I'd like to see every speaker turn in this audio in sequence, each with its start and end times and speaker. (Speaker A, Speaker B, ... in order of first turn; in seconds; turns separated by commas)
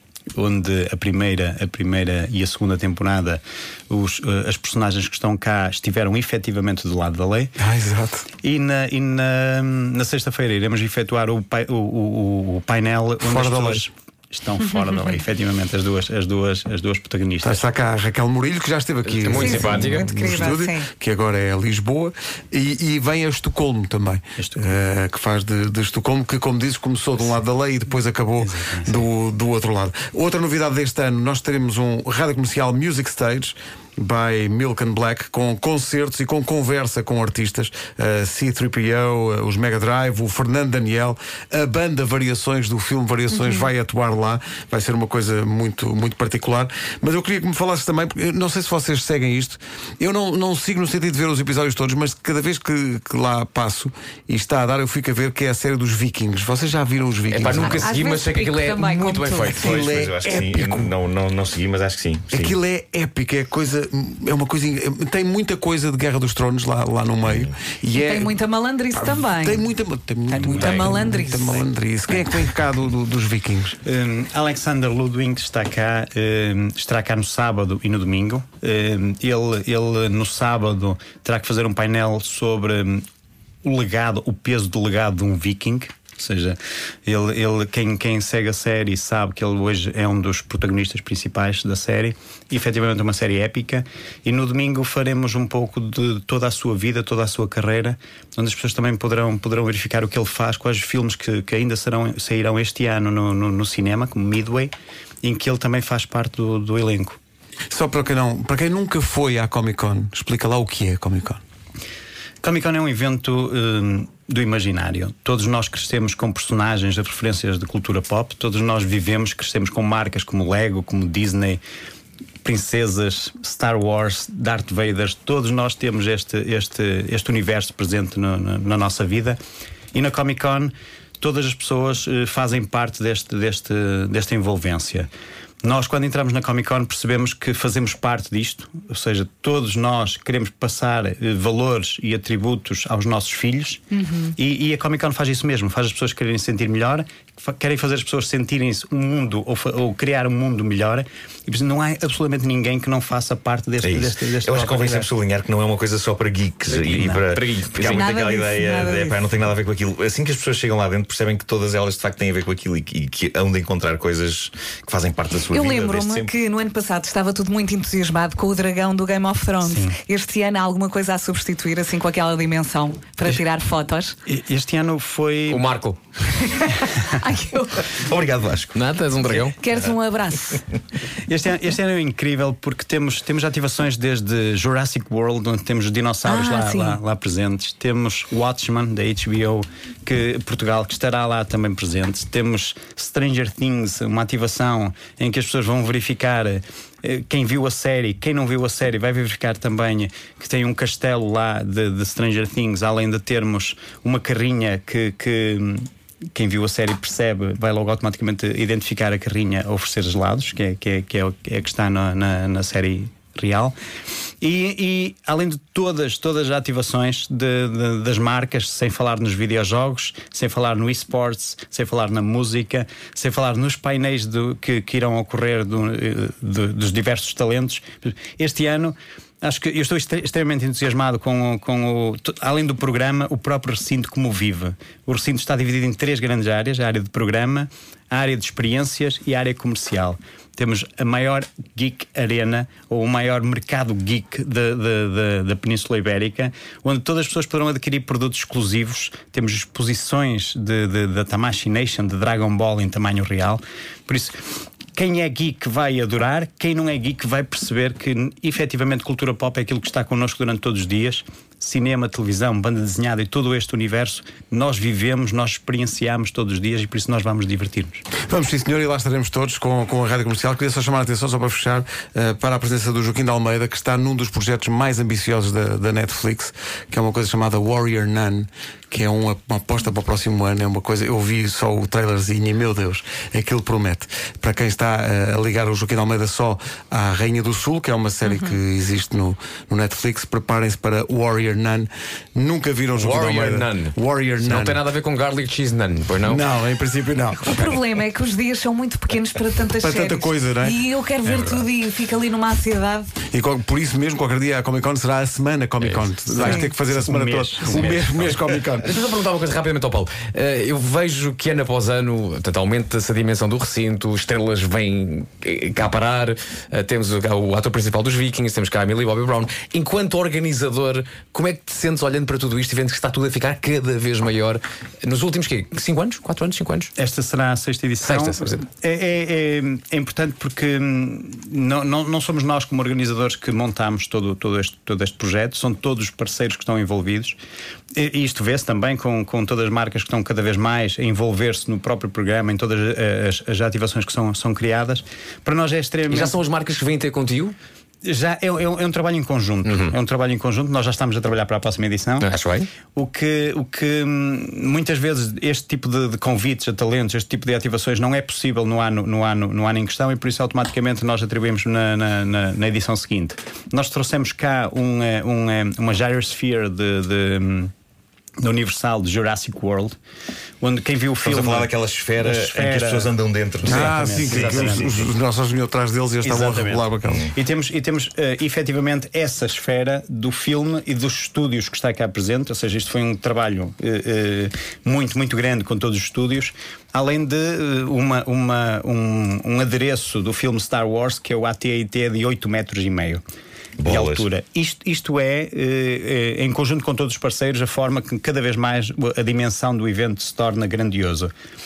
Speaker A: 0.3-7.6, Speaker B: 7.6-8.3, Speaker A: 8.4-17.6, Speaker B: 13.2-13.8, Speaker B: 17.4-57.9, Speaker C: 19.1-20.4, Speaker D: 19.3-20.9, Speaker A: 24.4-24.7, Speaker A: 28.4-29.0, Speaker C: 57.3-59.8, Speaker D: 57.6-59.6, Speaker B: 59.5-60.9, Speaker E: 59.5-62.6, Speaker B: 62.3-68.3, Speaker E: 67.2-67.5, Speaker D: 67.9-69.7, Speaker B: 68.9-73.8, Speaker D: 70.3-71.6, Speaker C: 70.6-71.0, Speaker A: 73.8-83.0, Speaker A: 83.6-104.7, Speaker A: 105.2-107.2, Speaker B: 107.7-111.4, Speaker A: 112.4-121.6, Speaker A: 122.4-129.4, Speaker A: 129.9-135.1, Speaker A: 135.6-143.8, Speaker D: 143.9-144.3, Speaker A: 144.4-155.1, Speaker E: 153.8-166.3, Speaker C: 156.7-158.1, Speaker D: 158.0-159.2, Speaker D: 165.5-174.2, Speaker A: 169.6-170.0, Speaker A: 174.3-175.6, Speaker C: 175.5-176.0, Speaker D: 176.3-177.8, Speaker A: 176.8-177.1, Speaker E: 177.9-178.8, Speaker C: 178.7-179.7, Speaker D: 179.6-180.6, Speaker A: 181.3-213.7, Speaker D: 186.2-187.0, Speaker A: 214.4-254.4, Speaker A: 254.9-268.0, Speaker B: 268.3-294.8, Speaker C: 292.9-296.4, Speaker B: 296.2-297.8, Speaker D: 297.6-303.2, Speaker B: 299.8-300.8, Speaker B: 303.3-308.9, Speaker C: 305.8-306.6, Speaker A: 306.3-308.1, Speaker C: 307.7-308.3, Speaker C: 308.8-326.9, Speaker A: 327.0-337.4, Speaker C: 328.0-328.6, Speaker A: 337.9-346.4, Speaker C: 346.1-347.6, Speaker A: 348.0-352.3, Speaker C: 349.6-349.9, Speaker C: 352.2-352.7, Speaker A: 352.9-367.7, Speaker A: 368.4-369.9, Speaker A: 370.6-375.0, Speaker E: 371.2-375.1, Speaker B: 373.6-377.3, Speaker A: 376.2-393.2, Speaker E: 377.0-377.3, Speaker E: 393.8-394.2, Speaker A: 393.8-401.3